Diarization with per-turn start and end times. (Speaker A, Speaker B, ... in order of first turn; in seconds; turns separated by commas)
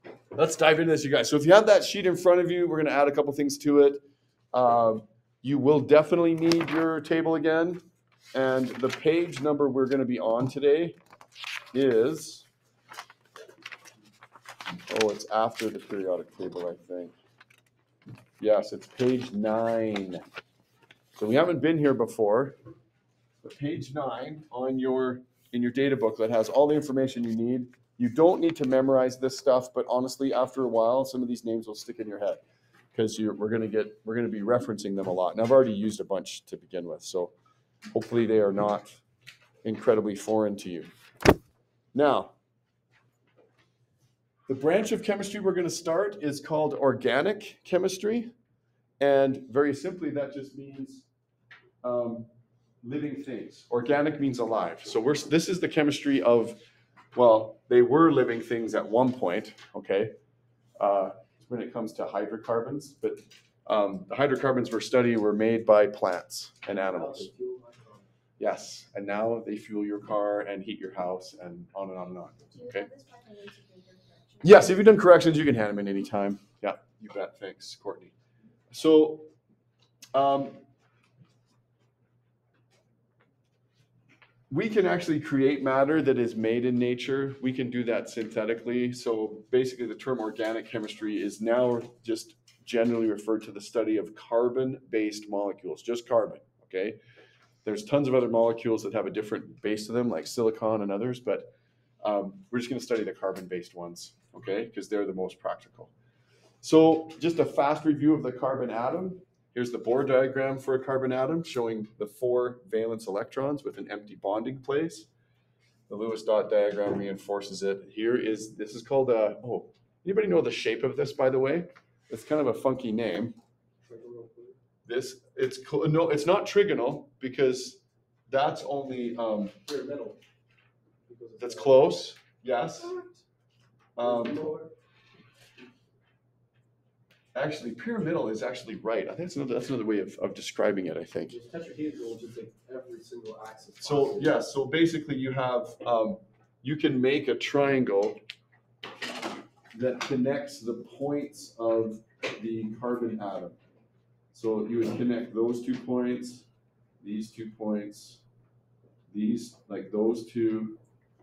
Speaker A: 0.3-4.0, Speaker A: 4.5-7.8, Speaker A: 8.3-11.0, Speaker A: 11.7-12.5, Speaker A: 14.9-17.1, Speaker A: 18.4-20.2, Speaker A: 21.2-22.6, Speaker A: 23.4-32.4, Speaker A: 32.9-37.3, Speaker A: 37.9-39.0, Speaker A: 39.6-40.9, Speaker A: 41.9-42.3, Speaker A: 44.5-48.3, Speaker A: 49.0-51.1, Speaker A: 51.8-52.3, Speaker A: 52.8-56.6, Speaker A: 57.1-60.1, Speaker A: 60.8-67.3, Speaker B: 66.8-68.1, Speaker A: 68.4-72.9, Speaker C: 72.5-74.8, Speaker A: 74.4-78.1, Speaker A: 78.7-79.3, Speaker A: 80.1-80.6, Speaker A: 84.5-97.0, Speaker A: 97.6-101.5, Speaker A: 102.0-105.9, Speaker A: 106.6-115.1, Speaker A: 115.9-123.3, Speaker B: 123.8-124.6, Speaker A: 124.9-129.6, Speaker B: 129.6-130.2, Speaker B: 131.1-131.9, Speaker A: 131.4-133.0, Speaker B: 132.8-133.2, Speaker A: 134.0-134.5, Speaker B: 134.0-134.7, Speaker A: 137.3-141.4, Speaker B: 141.3-144.4, Speaker A: 143.8-148.2, Speaker A: 149.7-153.6, Speaker A: 154.3-156.5, Speaker A: 157.0-158.2, Speaker A: 159.1-160.8